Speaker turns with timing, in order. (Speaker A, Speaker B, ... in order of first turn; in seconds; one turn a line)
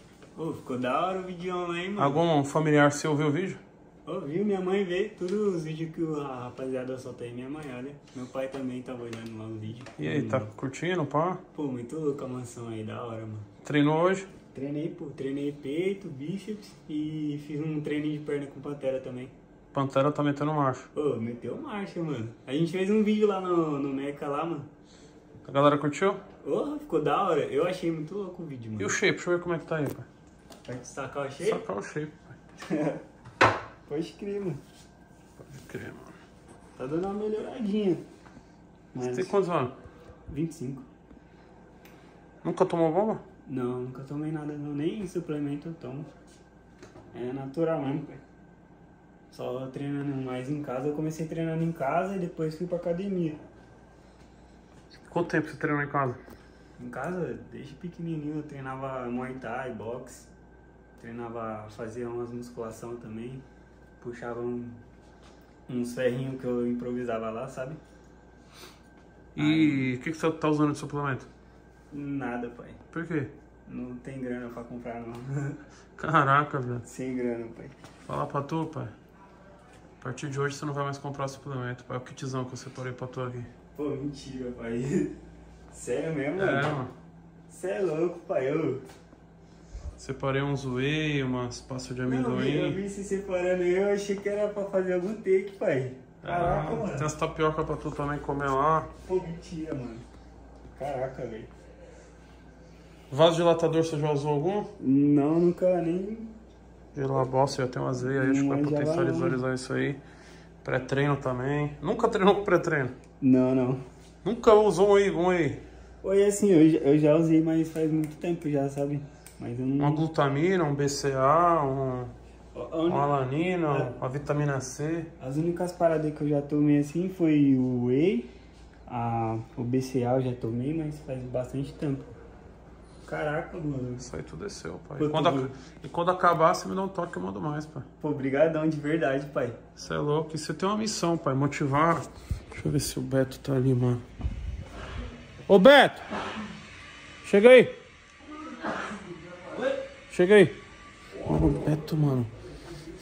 Speaker A: 0.3-2.2
Speaker B: 2.0-3.6
Speaker A: 4.0-10.5
Speaker B: 10.0-11.4
Speaker A: 11.5-13.5
Speaker B: 13.6-14.3
Speaker A: 14.5-19.3
Speaker B: 19.7-20.9
Speaker A: 20.9-24.7
Speaker B: 25.4-26.2
Speaker A: 26.4-28.9
Speaker B: 28.8-30.1
Speaker A: 30.6-31.6
Speaker B: 31.4-32.3
Speaker A: 32.6-33.0
Speaker A: 33.9-34.6
Speaker B: 35.4-36.1
Speaker A: 36.8-38.0
Speaker A: 38.9-39.4
Speaker B: 39.0-39.8
Speaker A: 40.3-40.9
Speaker B: 42.4-43.2
Speaker A: 43.5-46.1
Speaker A: 47.1-48.2
Speaker A: 49.3-53.4
Speaker B: 55.1-56.2
Speaker A: 56.8-60.3
Speaker A: 61.0-63.4
Speaker A: 64.0-64.8
Speaker A: 65.7-67.8
Speaker B: 69.3-71.3
Speaker A: 69.3-69.9
Speaker A: 71.9-72.8
Speaker B: 72.9-73.3
Speaker A: 73.7-75.6
Speaker B: 76.0-76.8
Speaker A: 76.8-77.7
Speaker B: 78.0-78.9
Speaker B: 80.0-83.5
Speaker A: 83.7-85.1
Speaker A: 85.7-86.7
Speaker B: 86.4-86.9
Speaker A: 87.5-88.8
Speaker B: 90.0-92.8
Speaker A: 92.1-97.1
Speaker B: 96.2-98.9
Speaker A: 99.0-100.0
Speaker A: 100.7-101.5
Speaker B: 103.1-104.7
Speaker A: 104.8-106.3
Speaker B: 106.9-110.0
Speaker A: 108.0-109.4
Speaker B: 110.6-112.9
Speaker A: 113.2-113.8
Speaker B: 114.2-115.6
Speaker A: 116.0-120.0
Speaker B: 119.8-122.1
Speaker A: 122.5-123.9
Speaker B: 122.9-125.1
Speaker A: 125.2-128.3
Speaker A: 128.9-132.1
Speaker A: 133.0-134.1
Speaker B: 134.0-137.8
Speaker A: 135.0-135.5
Speaker A: 138.0-139.6
Speaker B: 139.8-144.0
Speaker B: 145.5-146.0
Speaker B: 147.2-147.7
Speaker B: 150.1-150.6
Speaker B: 151.2-152.3